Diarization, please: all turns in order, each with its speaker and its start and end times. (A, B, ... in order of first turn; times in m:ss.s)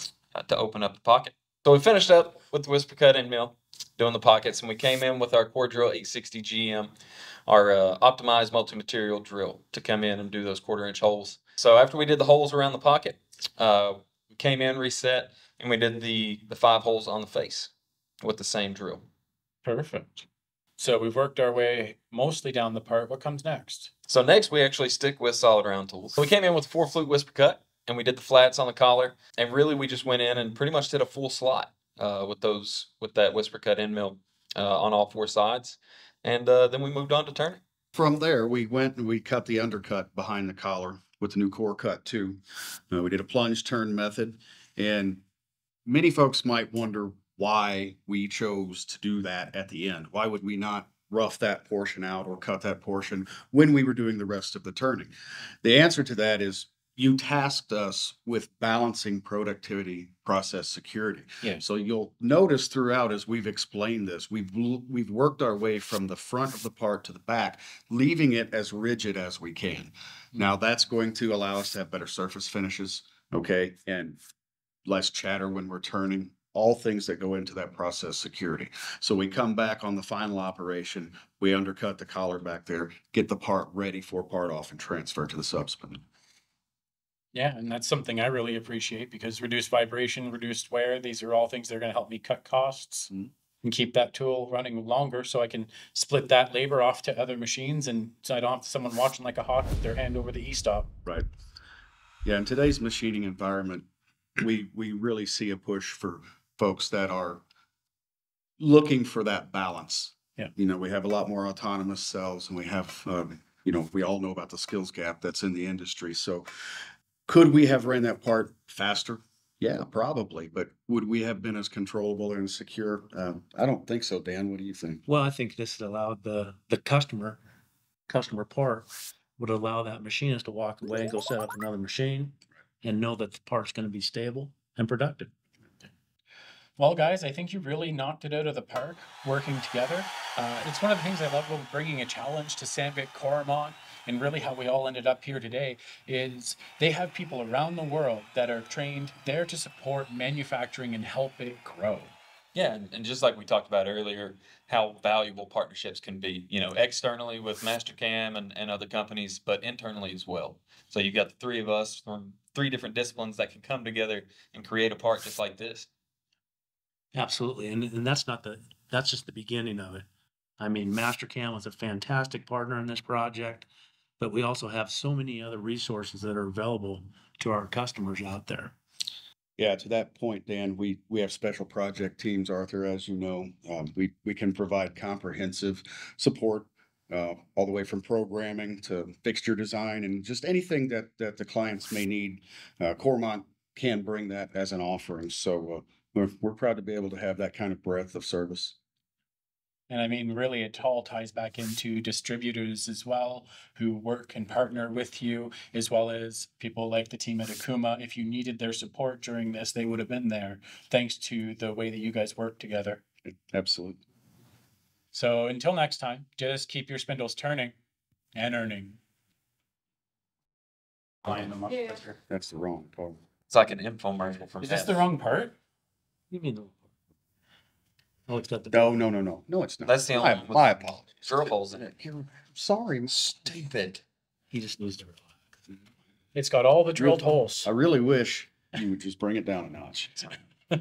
0:00.3-0:06.9 A
0:07.5-0:17.7 A
0:18.2-0:19.0 A
0:19.6-0:20.3 B
0:20.8-0:23.9 B
0:24.1-0:37.6 A
0:38.0-0:42.4 C
0:42.9-0:45.2 C
0:45.9-0:55.1 C
0:55.6-1:14.2 C
1:14.9-1:26.0 C
1:27.3-1:33.1 B
1:33.6-1:40.9 B
1:42.2-1:43.9 C
1:44.4-1:47.4 C
1:48.6-1:56.5 C
1:57.3-2:05.0 C
2:05.1-2:07.4 D
2:08.1-2:15.3 D
2:16.8-2:32.1 B
2:32.6-2:45.9 A
2:47.2-2:50.1 D
2:50.6-2:53.7 D
2:54.2-2:58.8 D
2:59.6-3:18.8 C
3:19.9-3:33.0 B
3:33.3-3:34.0 C
3:35.1-3:37.7 B
3:38.4-3:39.0 B
3:41.2-3:42.2 B
3:42.2-3:43.2 C
3:43.5-3:45.0 A
3:44.6-3:45.6 B
3:46.3-3:46.8 D
3:48.3-3:49.0 D
3:48.7-3:53.3 C
3:49.9-3:51.9 A
3:53.1-3:54.0 A
3:54.5-3:55.2 D
3:56.3-3:57.7 B
3:57.0-4:00.4 C